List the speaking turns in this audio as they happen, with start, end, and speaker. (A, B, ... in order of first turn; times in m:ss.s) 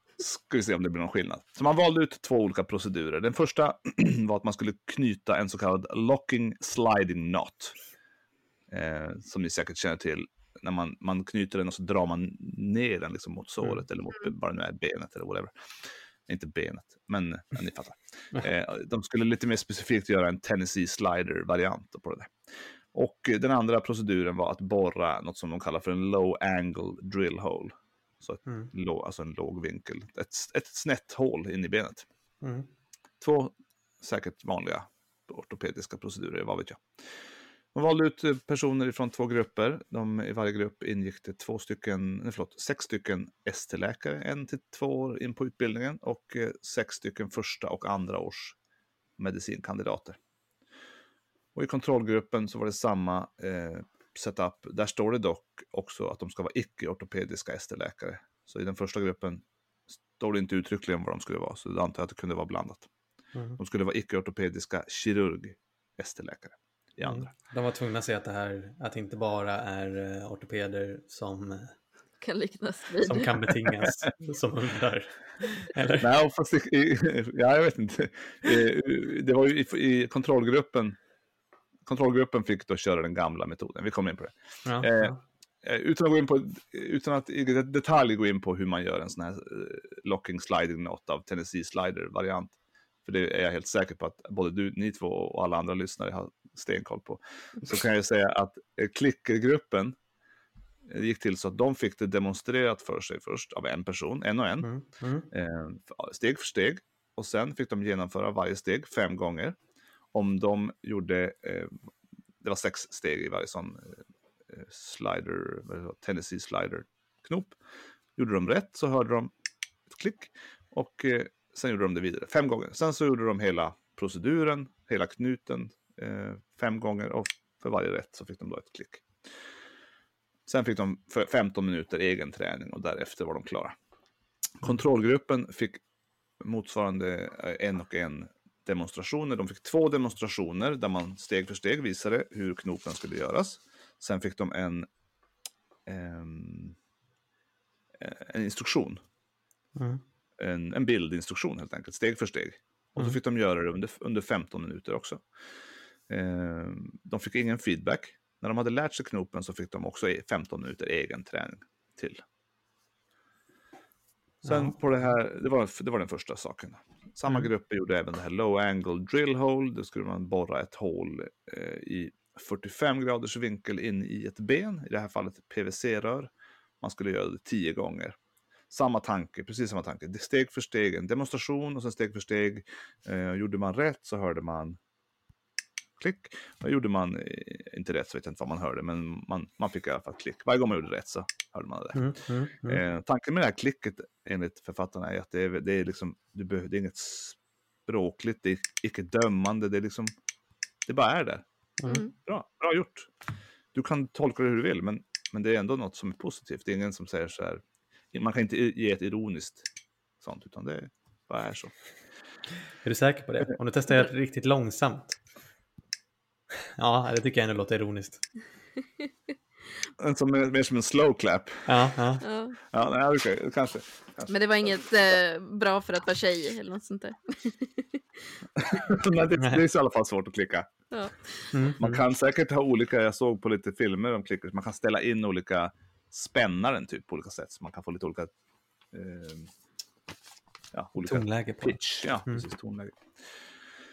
0:00.2-0:07.8 A
0:08.7-0:15.5 A
0:16.3-0:22.4 A
0:22.9-0:32.1 A
0:28.5-0:28.7 B
0:32.4-0:32.7 B
0:33.2-0:36.8 A
0:37.7-0:48.6 A
0:49.2-0:50.2 A
0:51.6-0:59.4 A
1:00.2-1:02.9 A
1:03.6-1:07.3 A
1:07.0-1:11.7 B
1:12.2-1:13.5 C
1:13.0-1:16.1 B
1:16.0-1:21.0 A
1:21.9-1:40.0 A
1:24.6-1:25.2 B
1:40.9-1:44.7 A
1:44.6-1:45.3 B
1:45.3-1:49.6 A
1:50.1-1:51.8 A
1:52.4-1:57.6 A
1:58.2-1:59.3 A
1:59.9-2:09.1 A
2:10.5-2:13.8 A
2:14.6-2:15.8 A
2:16.4-2:24.9 A
2:25.9-2:26.8 A
2:28.0-2:29.0 A
2:29.8-2:30.0 B
2:30.4-2:35.2 A
2:36.1-2:42.2 A
2:44.4-2:44.7 B
2:44.4-2:56.3 A
2:56.8-2:58.2 A
2:58.7-3:04.8 A
3:06.0-3:20.1 A
3:11.9-3:12.8 B
3:20.9-3:21.4 A
3:21.8-3:22.0 B
3:21.9-3:22.1 C
3:22.3-3:23.1 A
3:23.7-3:27.6 A
3:28.1-3:29.7 A
3:30.2-3:31.7 A
3:32.8-3:35.2 B
3:36.8-3:38.2 B
3:40.0-3:41.7 A
3:41.7-3:42.2 B
3:42.2-3:42.6 C
3:42.7-3:44.4 A
3:44.3-3:48.7 C
3:48.6-3:50.7 A
3:50.9-3:51.5 C
3:51.5-3:52.0 B
3:51.8-3:58.3 A
3:58.9-3:59.5 A
4:00.7-4:03.3 A
4:01.0-4:02.4 B